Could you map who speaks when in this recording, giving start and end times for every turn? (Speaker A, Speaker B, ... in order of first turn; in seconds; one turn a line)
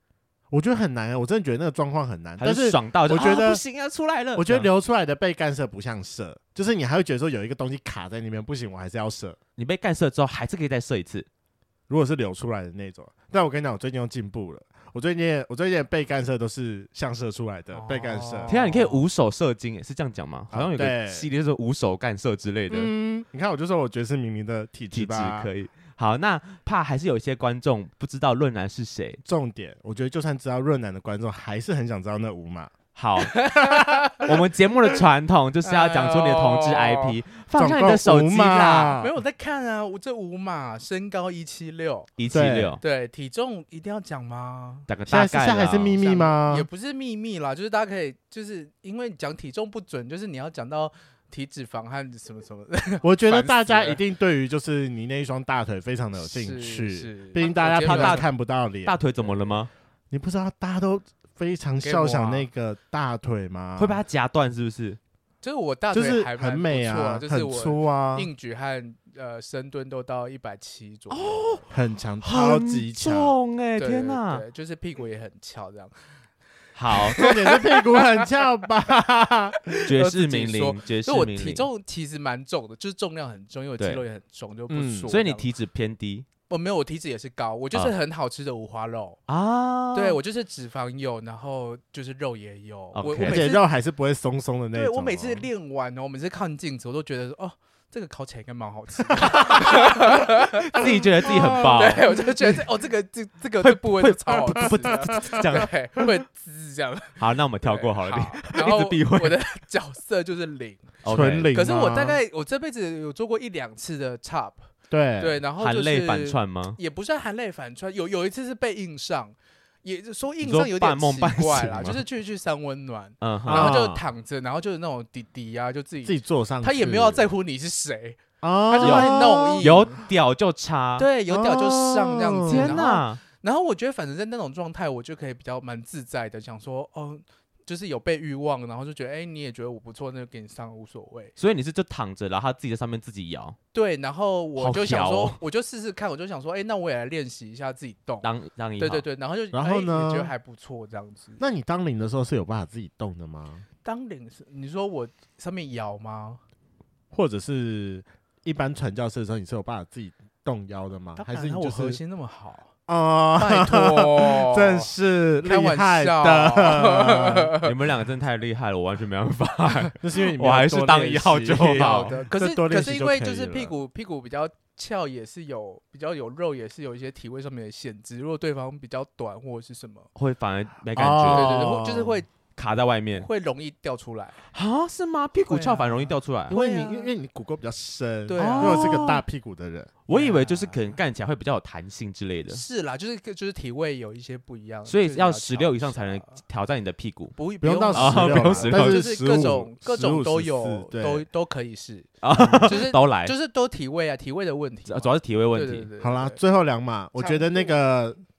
Speaker A: 0.5-3.6
Speaker B: 2.4-4.7
Speaker A: 4.4-9.4
Speaker B: 9.6-11.3
Speaker A: 11.9-18.5
Speaker C: 17.7-19.1
Speaker B: 18.5-22.9
Speaker A: 20.5-21.3
Speaker A: 22.7-25.5
Speaker B: 24.9-29.2
Speaker A: 29.2-32.7
Speaker B: 33.0-33.5
Speaker C: 33.2-34.3
Speaker B: 34.2-39.0
Speaker C: 35.6-37.2
Speaker A: 37.6-39.1
Speaker C: 39.0-42.1
Speaker B: 42.2-42.8
Speaker A: 42.3-42.8
Speaker C: 42.8-44.9
Speaker B: 44.9-46.0
Speaker A: 45.1-46.7
Speaker C: 46.0-54.0
Speaker A: 53.0-59.0
Speaker C: 56.2-58.2
Speaker B: 57.8-58.3
Speaker B: 58.9-59.7
Speaker C: 59.2-59.6
Speaker A: 60.1-64.0
Speaker C: 61.8-62.5
Speaker B: 63.8-65.0
Speaker C: 65.4-71.7
Speaker A: 65.9-68.3
Speaker B: 71.1-71.7
Speaker A: 71.7-73.3
Speaker B: 72.2-74.4
Speaker C: 73.8-75.9
Speaker B: 76.8-77.2
Speaker C: 76.9-78.3
Speaker A: 77.1-79.7
Speaker C: 79.7-85.5
Speaker B: 79.9-81.7
Speaker A: 84.7-85.1
Speaker B: 85.1-86.3
Speaker C: 86.5-89.2
Speaker B: 89.3-90.2
Speaker C: 89.9-93.6
Speaker B: 92.9-93.5
Speaker A: 93.2-95.5
Speaker C: 94.7-111.0
Speaker B: 99.4-99.9
Speaker B: 100.7-102.1
Speaker A: 100.8-102.5
Speaker B: 103.6-105.7
Speaker A: 104.6-105.6
Speaker B: 107.2-109.4
Speaker B: 111.0-111.5
Speaker A: 111.1-112.2
Speaker C: 111.5-114.7
Speaker A: 114.9-115.4
Speaker C: 115.2-130.1
Speaker B: 115.6-116.8
Speaker B: 120.4-122.0
Speaker B: 123.2-123.8
Speaker A: 123.5-124.0
Speaker A: 126.0-127.3
Speaker A: 128.4-129.8
Speaker B: 128.8-131.1
Speaker C: 131.0-141.3
Speaker A: 131.3-132.8
Speaker B: 132.5-133.2
Speaker B: 141.4-143.6
Speaker C: 143.7-151.4
Speaker B: 144.6-145.4
Speaker B: 148.2-149.1
Speaker A: 149.5-150.3
Speaker A: 151.4-153.7
Speaker C: 153.8-156.4
Speaker A: 157.1-162.0
Speaker C: 161.2-162.7
Speaker A: 162.9-167.5
Speaker C: 163.4-167.7
Speaker B: 167.6-172.2
Speaker A: 170.0-173.7
Speaker C: 171.7-180.1
Speaker B: 180.2-181.6
Speaker A: 181.0-182.2
Speaker C: 181.3-182.3
Speaker B: 182.6-183.3
Speaker C: 183.1-184.5
Speaker B: 184.5-186.6
Speaker C: 185.5-187.1
Speaker A: 186.5-189.9
Speaker C: 188.3-189.2
Speaker B: 188.4-189.2
Speaker B: 190.1-192.6
Speaker C: 190.1-191.0
Speaker C: 192.5-196.3
Speaker B: 194.9-197.4
Speaker C: 197.3-206.4
Speaker A: 197.6-201.2
Speaker B: 197.9-199.0
Speaker B: 202.2-203.3
Speaker A: 202.4-202.8
Speaker B: 204.9-205.9
Speaker A: 206.0-208.2
Speaker C: 207.2-207.8